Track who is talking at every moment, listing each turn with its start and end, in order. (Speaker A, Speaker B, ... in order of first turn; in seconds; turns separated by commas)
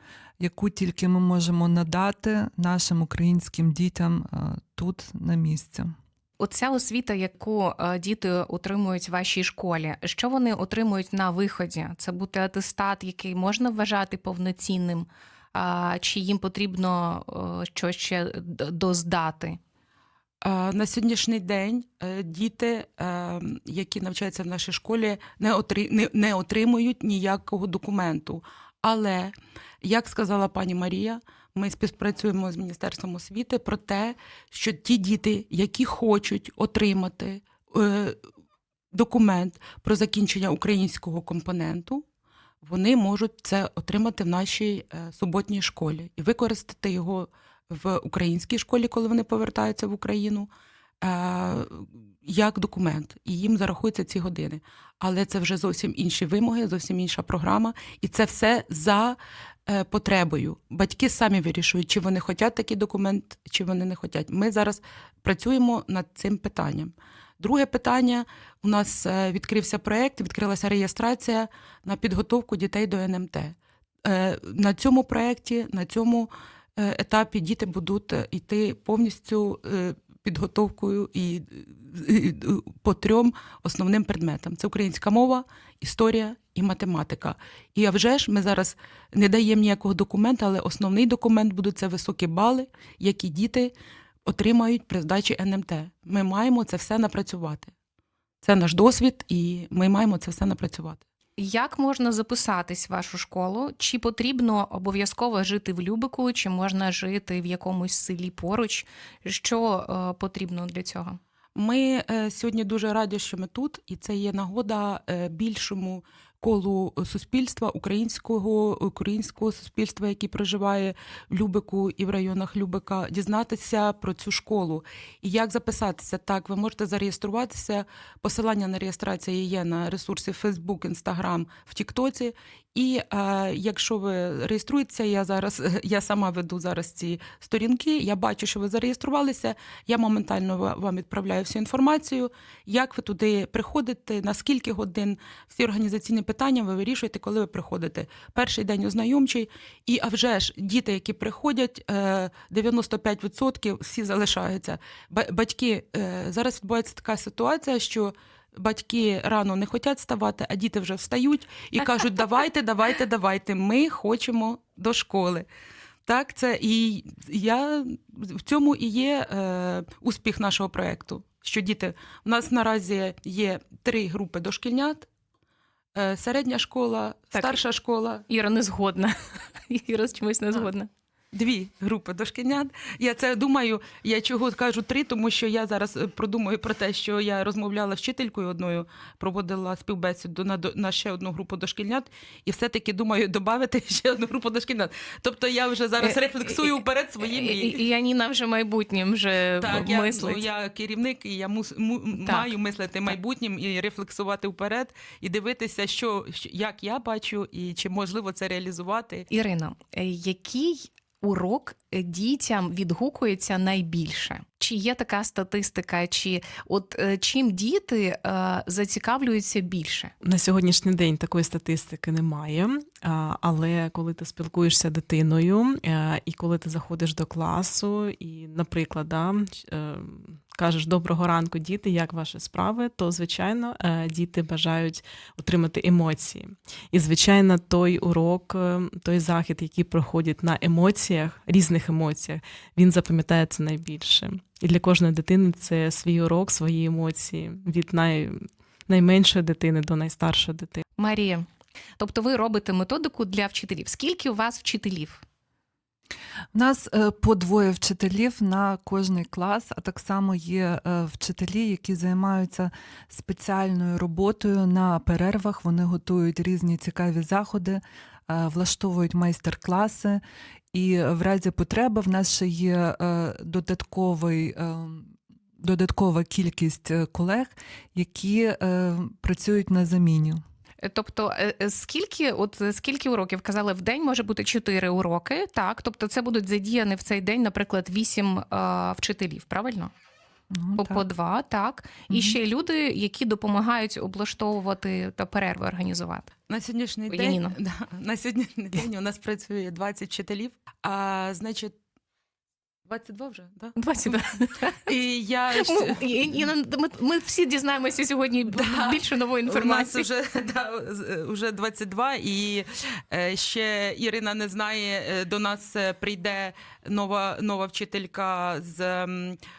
Speaker A: 0.4-5.9, Speaker B: 6.4-19.6, Speaker C: 20.4-38.2, Speaker C: 38.9-42.0, Speaker C: 42.6-50.5, Speaker C: 51.0-93.7, Speaker C: 94.2-97.7, Speaker C: 98.4-101.0, Speaker B: 101.4-111.2, Speaker C: 111.5-165.4, Speaker C: 166.1-175.1, Speaker C: 175.9-178.2, Speaker B: 178.3-180.9, Speaker C: 181.3-197.8, Speaker B: 196.0-196.7, Speaker B: 197.2-200.4, Speaker C: 199.6-209.3, Speaker B: 202.2-202.5, Speaker B: 209.3-220.1, Speaker D: 220.2-250.8, Speaker B: 251.0-251.5, Speaker B: 252.0-255.2, Speaker A: 256.5-270.2, Speaker A: 270.7-280.4, Speaker B: 280.8-289.9, Speaker A: 290.5-291.0, Speaker B: 290.8-296.3, Speaker A: 292.1-292.4, Speaker C: 296.5-301.7, Speaker B: 297.1-297.5, Speaker C: 302.9-304.2, Speaker B: 303.8-304.8, Speaker C: 304.8-306.0, Speaker B: 305.5-310.0, Speaker C: 308.5-319.4